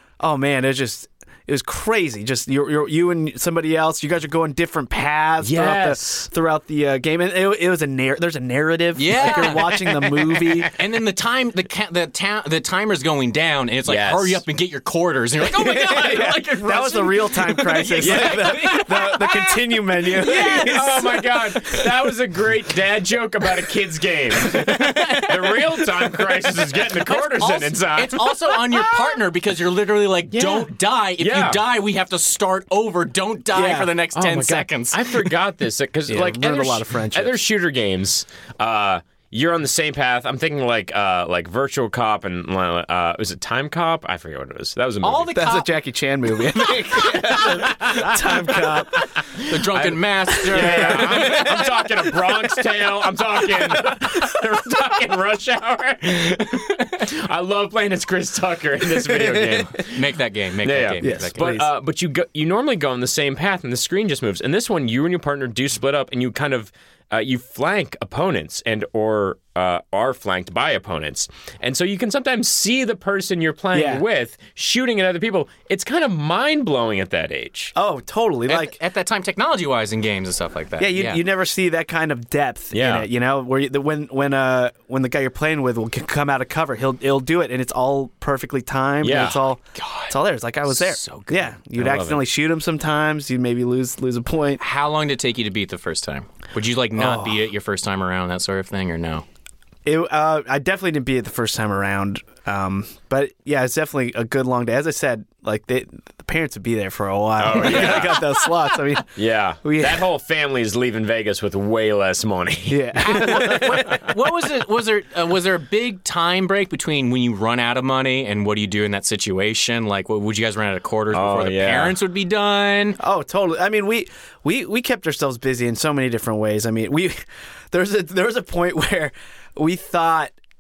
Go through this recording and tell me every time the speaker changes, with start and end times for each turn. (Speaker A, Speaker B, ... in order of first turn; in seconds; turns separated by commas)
Speaker A: 0.2-10.7, Speaker B: 5.4-6.3, Speaker C: 8.9-19.4, Speaker B: 13.8-14.4, Speaker A: 15.8-21.9, Speaker B: 18.0-19.4, Speaker C: 20.1-21.2, Speaker B: 20.2-28.9, Speaker C: 24.7-25.3, Speaker C: 27.0-35.3, Speaker B: 30.3-31.6, Speaker A: 33.5-33.9, Speaker B: 34.1-45.4, Speaker A: 36.1-37.4, Speaker C: 45.0-45.7, Speaker A: 45.3-49.0, Speaker B: 47.5-48.1, Speaker B: 49.4-77.7, Speaker C: 49.4-51.7, Speaker A: 50.4-51.7, Speaker A: 59.0-59.7, Speaker C: 59.9-61.5, Speaker A: 61.0-61.7, Speaker A: 73.7-74.0, Speaker A: 77.8-78.8, Speaker C: 78.5-81.2, Speaker A: 80.8-94.6, Speaker B: 82.7-83.1, Speaker B: 89.0-89.4, Speaker C: 89.8-90.1, Speaker C: 90.7-91.5, Speaker B: 91.7-92.2, Speaker C: 94.6-99.2, Speaker A: 96.9-97.4, Speaker A: 99.8-110.1, Speaker B: 107.4-108.3, Speaker C: 107.6-108.2, Speaker B: 109.2-113.9, Speaker A: 112.7-114.1, Speaker C: 113.0-123.0, Speaker B: 121.1-122.0, Speaker A: 123.0-127.2, Speaker A: 127.7-130.3